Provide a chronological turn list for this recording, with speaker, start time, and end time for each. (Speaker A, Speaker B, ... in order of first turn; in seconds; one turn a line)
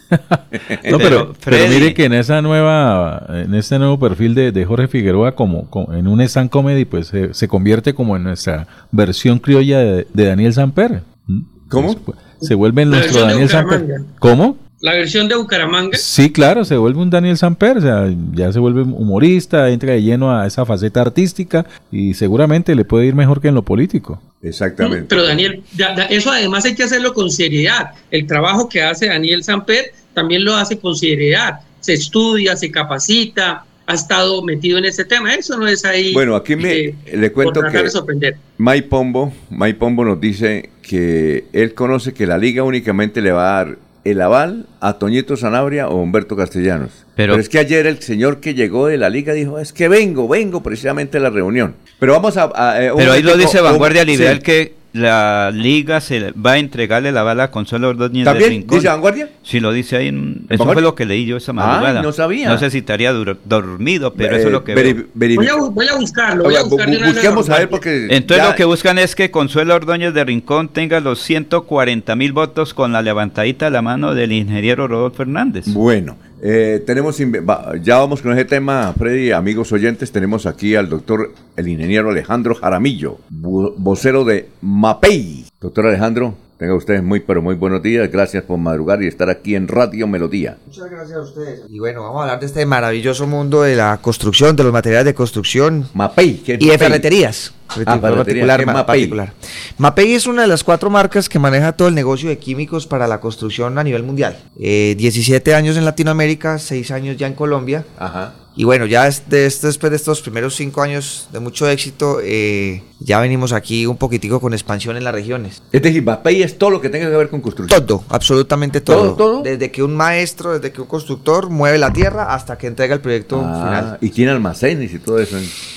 Speaker A: 0.3-14.6
Speaker B: 0.9-2.0
Speaker C: 11.7-12.0
Speaker D: 12.9-14.1
Speaker D: 14.8-16.0
Speaker A: 15.9-24.2
Speaker C: 24.4-25.5
Speaker D: 24.8-38.4
Speaker C: 36.1-37.9
Speaker C: 38.6-54.4
Speaker B: 47.2-47.4
Speaker B: 53.0-65.0
Speaker C: 58.2-59.3
Speaker C: 60.5-60.8
Speaker C: 61.6-62.6
Speaker C: 64.2-65.5
Speaker D: 65.3-67.8
Speaker C: 66.4-68.6
Speaker B: 68.1-75.7
Speaker C: 75.7-90.6
Speaker E: 90.7-95.9
Speaker C: 95.9-97.0
Speaker E: 96.6-107.9
Speaker C: 97.8-99.2
Speaker C: 108.0-108.3
Speaker E: 108.5-115.6
Speaker C: 115.7-117.8
Speaker E: 117.7-123.9
Speaker C: 118.8-119.5
Speaker C: 123.3-125.5